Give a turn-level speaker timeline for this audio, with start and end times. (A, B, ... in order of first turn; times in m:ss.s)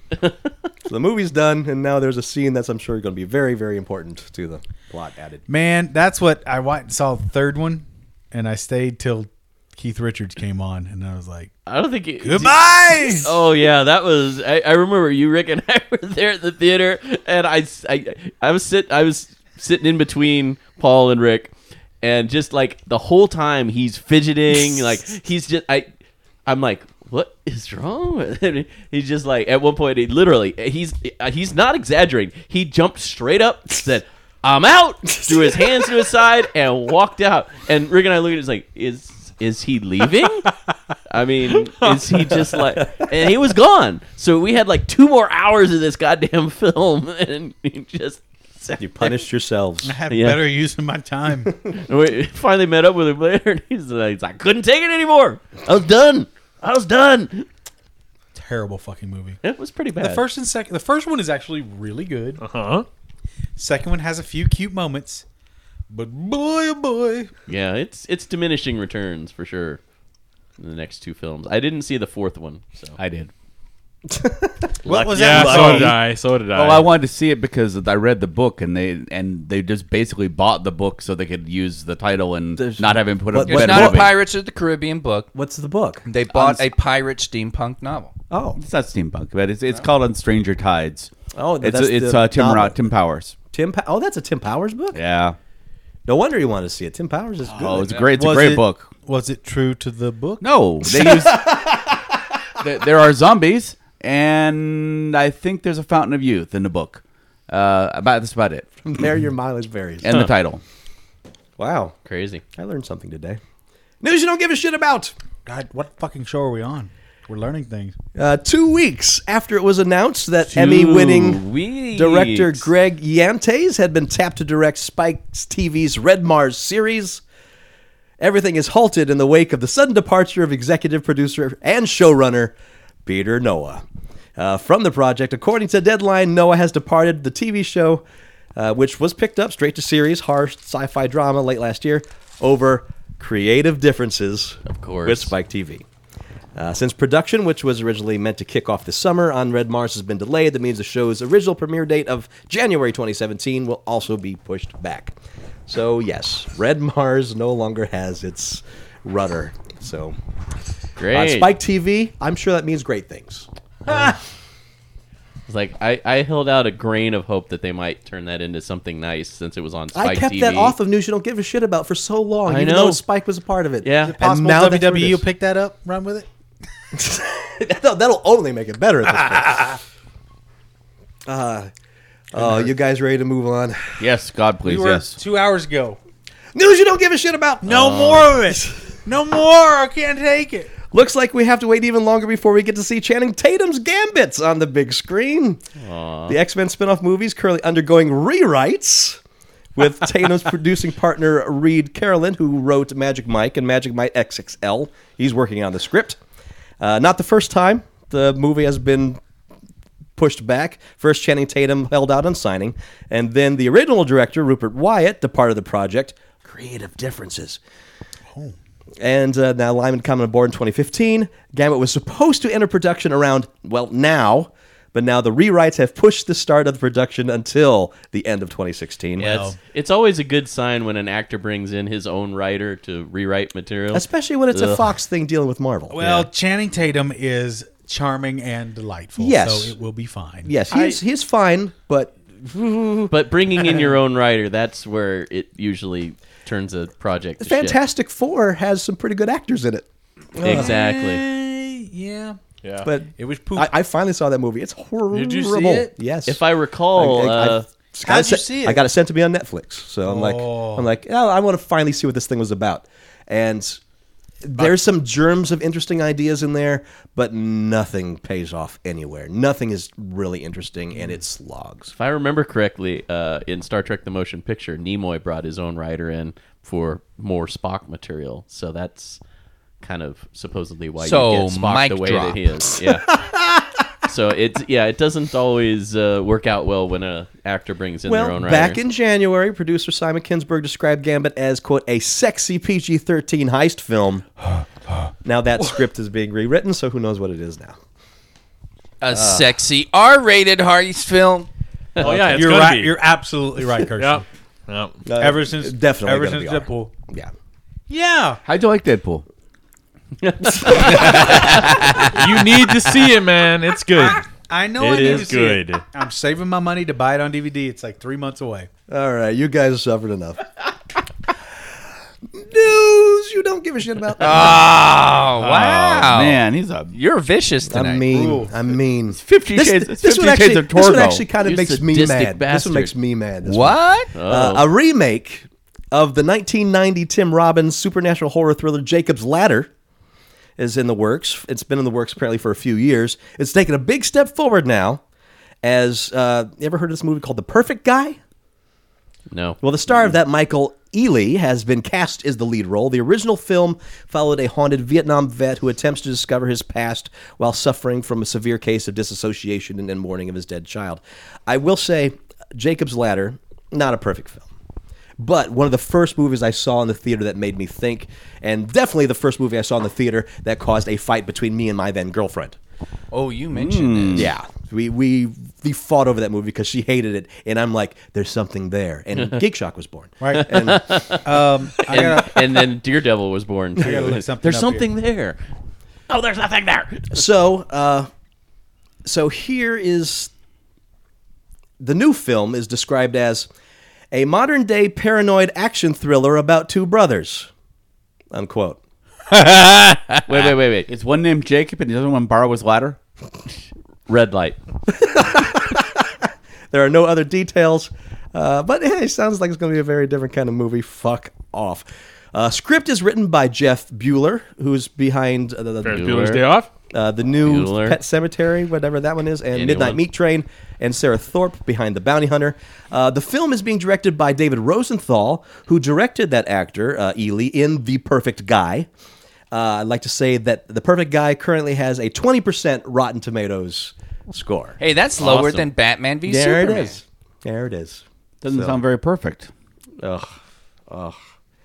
0:00.9-0:05.4 A
0:05.5-0:11.5 B
0:11.7-0:25.9 C
0:12.2-0:13.3 B
0:26.5-0:40.5 C
0:35.2-0:35.9 A
0:41.1-0:49.2 C
0:42.8-0:43.1 A
0:48.8-0:50.0 A
0:49.8-0:51.6 B
0:50.1-0:50.4 C
0:51.7-0:55.6 C
0:55.6-0:56.3 A
0:56.6-0:57.5 C
0:58.4-0:59.4 B
0:59.4-1:00.2 C
1:00.0-1:02.4 B
1:02.4-1:02.9 D
1:03.6-1:05.2 B
1:05.9-1:07.3 B
1:07.5-1:09.8 C
1:10.6-1:13.0 C
1:13.0-1:13.3 E
1:14.1-1:16.0 A
1:14.8-1:15.9 B
1:15.1-1:16.9 D
1:15.2-1:15.5 C
1:16.5-1:24.2 E
1:22.6-1:24.1 A
1:23.4-1:25.3 F
1:25.3-1:26.1 A
1:26.1-1:28.1 F
1:26.3-1:26.7 E
1:28.3-1:28.6 A
1:28.6-1:33.4 E
1:31.4-1:32.8 A
1:33.5-1:35.0 A
1:34.9-1:35.4 E
1:36.1-1:38.1 A
1:37.5-1:38.9 E
1:38.1-1:40.5 B
1:40.4-1:41.6 E
1:40.8-1:42.0 A
1:42.6-1:48.7 E
1:48.8-1:50.1 A
1:50.0-1:50.6 E
1:51.6-1:52.0 A
1:52.1-1:52.4 C
1:52.6-1:53.4 A
1:54.0-1:55.2 A
1:55.5-1:58.0 B
1:58.2-2:07.2 A
2:00.5-2:02.7 C
2:08.2-2:12.5 A
2:13.0-2:13.8 A
2:14.4-2:18.0 A
2:18.6-2:25.8 A
2:24.7-2:25.3 C
2:26.6-2:35.2 A
2:35.7-2:40.2 A
2:41.0-2:41.5 C
2:41.1-2:44.1 A
2:45.5-2:50.8 C
2:49.9-2:55.2 A
2:52.5-2:53.0 C
2:53.8-2:54.2 C
2:54.0-2:56.3 B
2:57.0-2:59.8 A
3:01.3-3:01.7 A
3:02.3-3:03.8 A
3:04.0-3:05.2 E
3:04.7-3:06.0 B
3:06.6-3:08.6 A
3:07.6-3:10.7 B
3:07.8-3:08.2 E
3:10.9-3:15.6 A
3:15.8-3:16.4 C
3:16.3-3:19.2 A
3:19.8-3:26.2 A
3:26.8-3:29.2 A
3:30.2-3:37.6 A
3:39.0-3:49.4 A
3:49.2-3:49.6 B
3:49.2-3:54.9 C
3:53.9-3:56.3 A
3:55.9-4:00.5 B
3:59.2-3:59.8 A
4:00.4-4:03.1 A
4:00.7-4:01.0 C
4:03.1-4:07.8 C
4:07.4-4:10.7 A
4:10.4-4:11.2 C
4:10.4-4:12.4 B
4:12.6-4:12.9 D
4:12.8-4:16.4 A
4:13.2-4:13.7 B
4:15.1-4:15.9 B
4:16.3-4:17.6 C
4:17.0-4:23.8 A
4:18.0-4:18.8 B
4:20.0-4:20.9 B
4:24.4-4:31.9 A
4:32.0-4:39.2 C
4:39.8-4:43.2 C
4:41.0-4:42.5 F
4:44.0-4:48.8 C
4:48.1-4:54.3 A
4:55.2-4:57.8 A
4:59.0-5:01.5 F
4:59.1-4:59.5 A
5:02.0-5:02.9 D
5:02.0-5:04.2 B
5:04.0-5:05.0 D
5:05.1-5:07.3 A
5:05.2-5:06.9 B
5:07.9-5:08.4 B
5:08.4-5:09.2 E
5:10.2-5:12.1 C
5:10.5-5:11.4 A
5:12.0-5:14.2 D
5:13.9-5:18.7 B
5:14.8-5:15.8 D
5:18.9-5:20.5 A
5:22.3-5:24.6 A
5:24.2-5:28.1 F
5:25.4-5:27.0 E
5:27.7-5:39.7 A
5:28.1-5:28.5 B
5:29.1-5:31.2 E
5:31.4-5:32.9 C
5:33.5-5:34.1 F
5:34.1-5:34.7 C
5:40.6-5:45.0 A
5:45.6-5:48.2 A
5:49.3-5:49.6 C
5:49.6-6:04.5 A
6:05.2-6:12.6 A
6:13.1-6:14.3 F
6:13.5-6:14.3 E
6:14.1-6:20.8 A
6:20.2-6:20.5 B
6:20.5-6:21.2 C
6:21.2-6:22.4 B
6:21.9-6:25.4 C
6:23.8-6:24.9 B
6:26.1-6:27.2 C
6:27.1-6:28.1 A
6:29.0-6:30.3 A
6:31.8-6:33.5 A
6:34.1-6:37.5 A
6:38.3-6:38.8 A
6:40.3-6:40.9 C
6:40.3-6:43.0 E
6:44.1-6:44.6 C
6:44.9-6:56.2 A
6:55.8-6:56.7 D
6:55.9-6:56.4 C
6:56.9-7:08.9 A
6:57.4-6:58.0 C
6:59.5-7:00.0 C
7:09.5-7:15.6 A
7:14.8-7:17.0 F
7:16.2-7:18.8 A
7:18.4-7:19.5 E
7:20.0-7:20.4 A
7:20.9-7:21.2 A